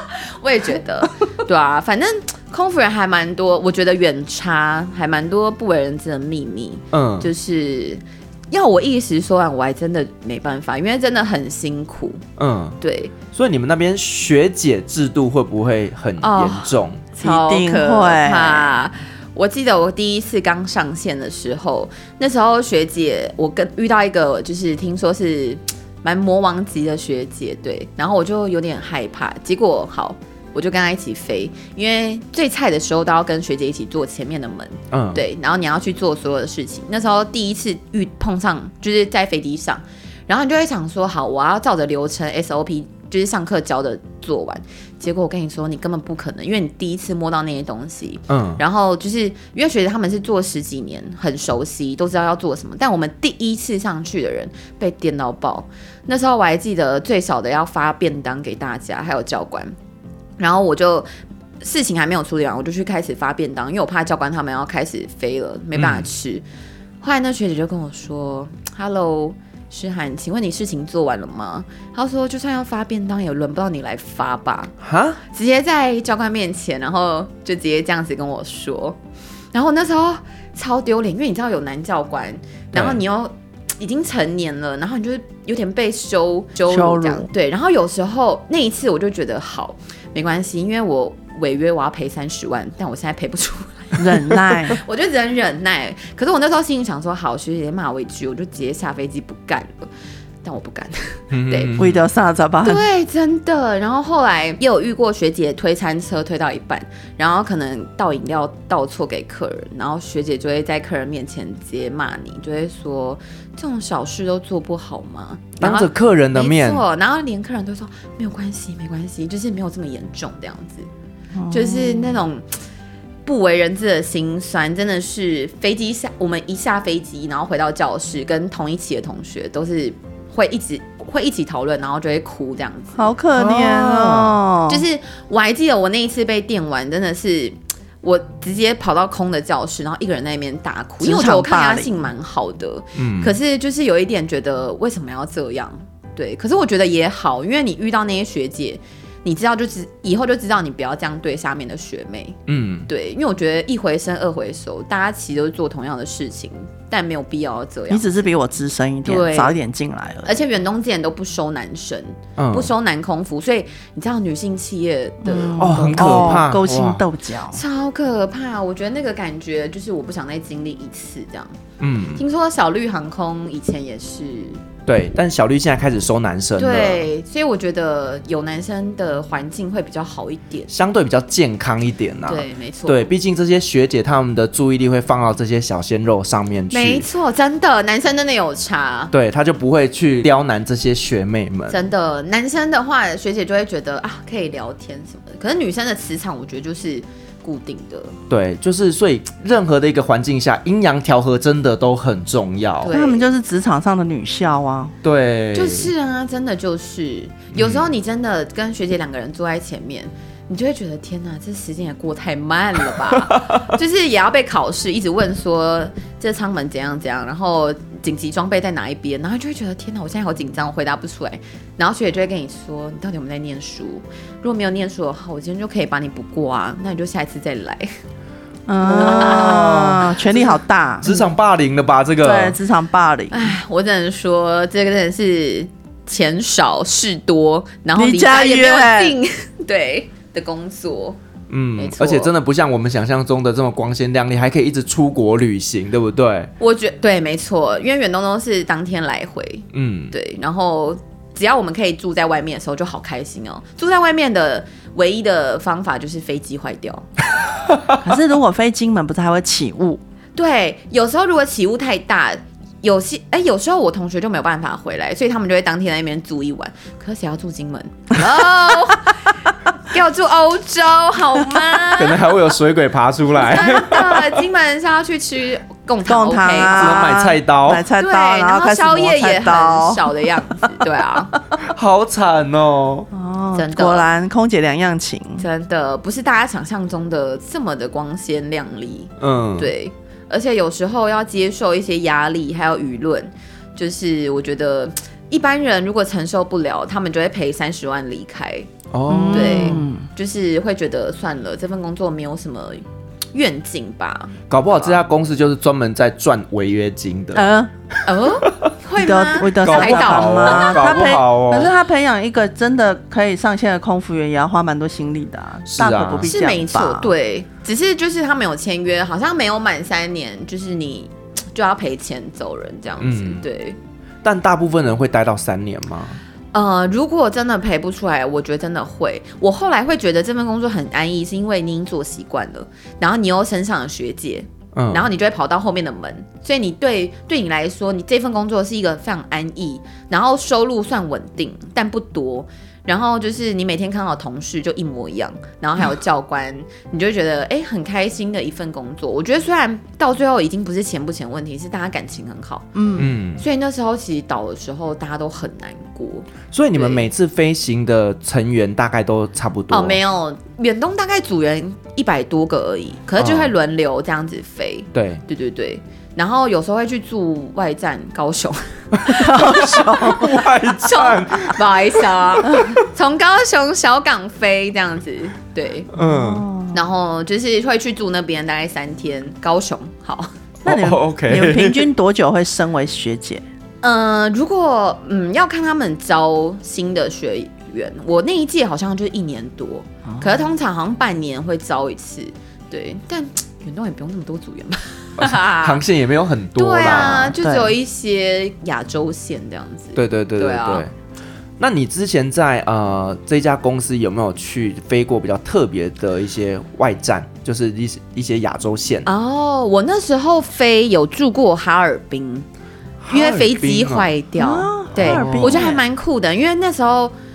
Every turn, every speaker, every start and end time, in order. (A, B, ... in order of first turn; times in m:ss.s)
0:00.4-0:12.2 A
0:06.9-0:07.3 B
0:12.4-0:12.8 B
0:12.8-0:13.1 A
0:13.3-0:17.1 B
0:16.2-0:59.7 A
0:17.2-0:18.7 C
0:34.9-0:35.2 B
0:48.3-0:48.6 B
1:00.4-1:01.1 A
1:01.6-1:06.4 A
1:05.8-1:06.1 B
1:07.0-1:14.7 A
1:14.8-1:15.2 B
1:15.3-1:19.0 A
1:19.5-1:39.9 A
1:22.7-1:23.0 B
1:26.7-1:27.3 C
1:34.0-1:34.8 C
1:40.4-1:41.8 A
1:41.3-1:42.0 B
1:41.8-1:42.8 C
1:42.6-2:00.9 A
1:55.6-1:56.8 B
2:01.4-2:02.2 C
2:01.5-2:02.5 A
2:03.2-2:13.1 A
2:13.0-2:14.8 C
2:13.4-2:14.4 B
2:14.7-2:38.2 A
2:21.0-2:22.0 C
2:23.0-2:23.4 B
2:32.5-2:32.9 B
2:37.9-2:40.4 C
2:39.0-2:39.6 A
2:40.2-2:46.5 A
2:42.4-2:42.7 B
2:45.2-2:47.6 C
2:45.6-2:47.0 B
2:47.5-2:51.6 A
2:51.8-2:52.2 B
2:52.2-2:54.6 A
2:54.9-2:57.1 B
2:56.6-3:00.7 A
3:00.7-3:07.1 B
3:02.3-3:03.1 A
3:06.7-3:09.1 A
3:09.1-3:11.8 B
3:11.7-3:18.2 A
3:18.3-3:22.9 B
3:22.8-3:23.3 A
3:22.9-3:24.9 C
3:25.0-3:25.9 B
3:25.5-3:47.9 A
3:27.5-3:27.9 B
3:48.7-3:51.1 C
3:48.8-3:51.2 A
3:51.0-3:52.6 B
3:52.2-3:53.6 C
3:53.3-4:01.2 A
3:58.0-3:59.2 C
4:01.5-4:06.5 B
4:01.8-4:02.3 A
4:06.6-4:17.1 A
4:09.7-4:10.2 B
4:18.0-4:20.0 C
4:20.4-4:29.2 A
4:29.9-4:32.4 A
4:32.0-4:34.4 B
4:33.4-4:37.2 A
4:36.1-4:40.7 C
4:36.7-4:37.9 B
4:38.0-4:41.3 A
4:41.6-4:43.1 B
4:43.1-4:45.5 C
4:43.5-4:44.1 A
4:45.4-4:58.7 A
4:49.2-4:49.7 B
4:58.9-4:59.8 B
4:59.1-5:00.1 C
4:59.3-5:05.0 A
5:04.5-5:07.5 B
5:07.3-5:07.7 C
5:08.1-5:11.1 A
5:09.0-5:17.1 C
5:09.6-5:11.7 B
5:15.7-5:16.3 B
5:16.2-5:23.8 A
5:23.0-5:23.4 B
5:24.2-5:26.2 B
5:26.5-5:52.7 A
5:34.7-5:35.1 B
5:52.8-5:53.1 C
5:53.0-5:53.4 B
5:53.4-5:57.1 A
5:56.5-6:00.0 B
5:59.7-6:09.6 A
6:03.2-6:03.5 B
6:04.9-6:05.2 B
6:08.9-6:11.6 B
6:09.1-6:10.5 C
6:10.7-6:15.9 A
6:15.9-6:16.4 B
6:16.0-6:16.8 C
6:16.7-6:20.3 A
6:20.6-6:21.9 B
6:20.6-6:23.4 C
6:23.8-6:35.8 A
6:30.1-6:30.5 C
6:35.2-6:37.4 B
6:36.6-6:40.9 A
6:37.4-6:37.7 C
6:40.0-6:40.9 B
6:41.6-6:49.1 B
6:49.0-6:52.5 A
6:53.0-6:54.1 B
6:53.1-6:57.1 A
6:54.4-6:55.8 C
6:55.0-6:55.7 B